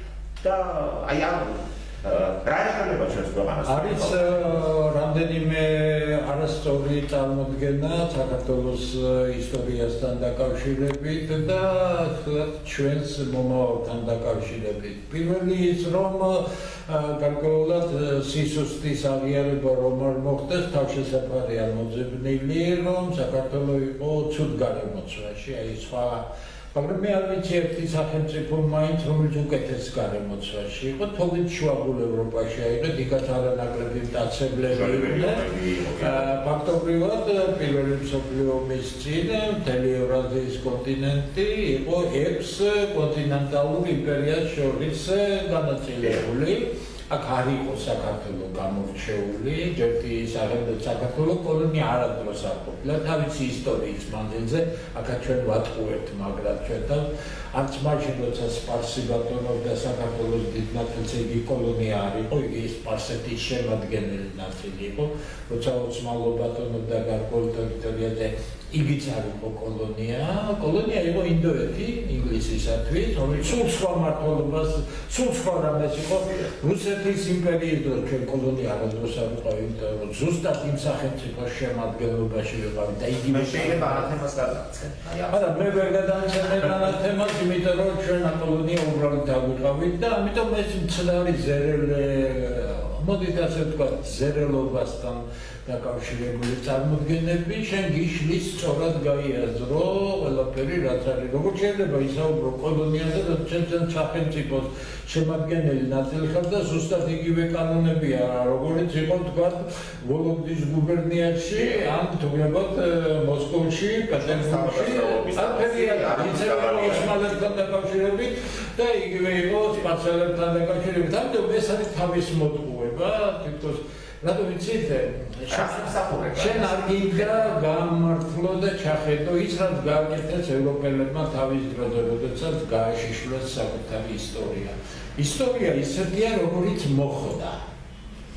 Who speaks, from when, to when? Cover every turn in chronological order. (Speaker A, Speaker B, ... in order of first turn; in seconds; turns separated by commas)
Speaker A: 0.4-4.3, Speaker B: 3.7-35.4, Speaker A: 34.7-36.3, Speaker B: 36.0-84.1, Speaker A: 83.3-85.7, Speaker B: 85.3-137.6, Speaker A: 111.5-111.8, Speaker A: 114.1-117.6, Speaker A: 125.5-127.6